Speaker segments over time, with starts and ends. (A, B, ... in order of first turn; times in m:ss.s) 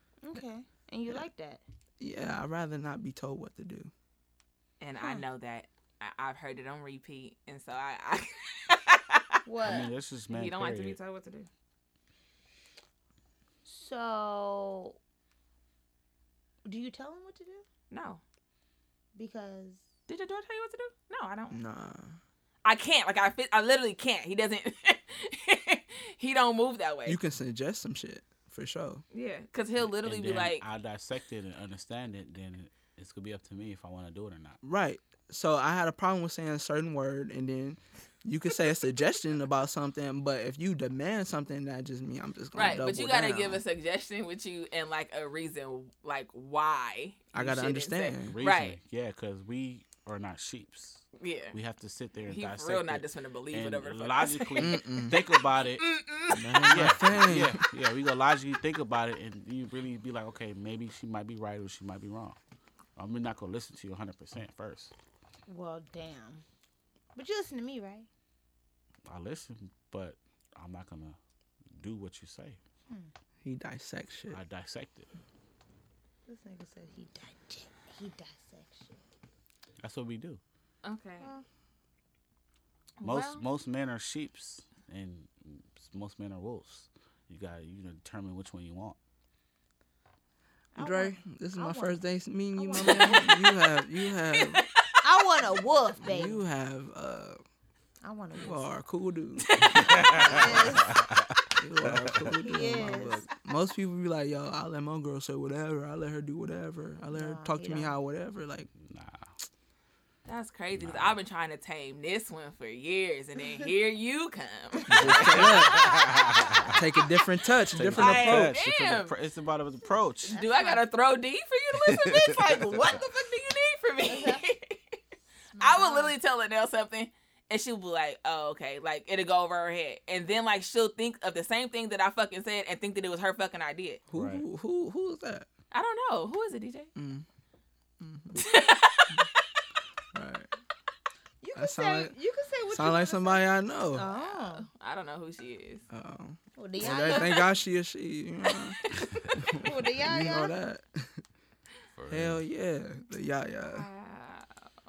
0:00.2-0:01.6 A
0:02.0-0:03.9 B
0:04.8-0:09.4 C
0:09.4-0:09.9 A
0:09.6-0:11.0 D
0:10.3-0:11.5 C
0:13.6-0:15.0 A
0:16.6-0:17.6 A
0:17.9-0:18.2 C
0:19.1-0:19.8 A
0:20.1-0:21.6 C
0:21.5-0:22.2 B
0:22.6-0:27.2 C
0:27.0-0:29.0 B
0:29.1-0:30.6 C
0:29.8-0:34.6 D
0:34.6-0:43.6 B
0:42.5-0:48.8 C
0:47.3-0:48.4 B
0:48.3-0:55.9 D
0:51.2-0:51.6 C
0:52.3-0:56.8 C
0:54.6-0:55.2 B
0:56.3-0:57.6 B
0:56.7-1:02.4 D
1:03.0-1:04.9 D
1:05.5-1:06.4 A
1:07.1-1:08.1 A
1:09.1-1:11.2 D
1:11.8-1:12.6 D
1:13.4-1:14.4 B
1:14.3-1:15.1 D
1:16.3-1:19.0 A
1:19.8-1:20.4 D
1:20.8-1:21.3 C
1:23.0-1:23.4 C
1:23.0-1:29.0 D
1:30.7-1:32.0 A
1:30.8-1:34.6 B
1:32.6-1:33.4 A
1:32.7-1:33.4 C
1:34.2-1:35.0 C
1:35.0-1:36.4 A
1:36.0-1:37.4 B
1:38.0-1:38.7 A
1:38.4-1:40.8 B
1:39.4-1:40.3 C
1:39.9-1:42.2 D
1:39.9-1:41.0 A
1:41.6-1:48.7 B
1:42.4-1:43.3 A
1:47.1-1:47.9 A
1:48.8-1:49.2 D
1:50.2-1:57.0 C
1:50.8-1:51.2 D
1:54.9-1:55.9 B
1:55.0-1:56.7 D
1:56.7-1:58.5 B
1:57.7-2:00.4 D
1:57.9-1:59.1 C
2:00.3-2:05.0 C
2:00.3-2:00.8 A
2:02.0-2:02.8 D
2:02.5-2:03.0 A
2:04.0-2:04.4 A
2:05.5-2:06.2 A
2:05.6-2:14.0 C
2:14.1-2:15.5 B
2:14.1-2:14.4 D
2:15.7-2:16.9 C
2:17.0-2:17.2 B
2:18.0-2:18.4 B
2:18.3-2:19.4 C
2:20.1-2:20.5 B
2:21.4-2:24.7 A
2:21.5-2:22.1 B
2:22.7-2:24.1 B
2:23.9-2:25.8 C
2:25.9-2:28.8 B
2:26.6-2:27.4 A
2:26.8-2:27.4 C
2:28.4-2:29.5 C
2:29.3-2:31.2 B
2:29.6-2:30.5 A
2:32.0-2:32.4 D
2:32.1-2:33.9 B
2:33.6-2:34.6 C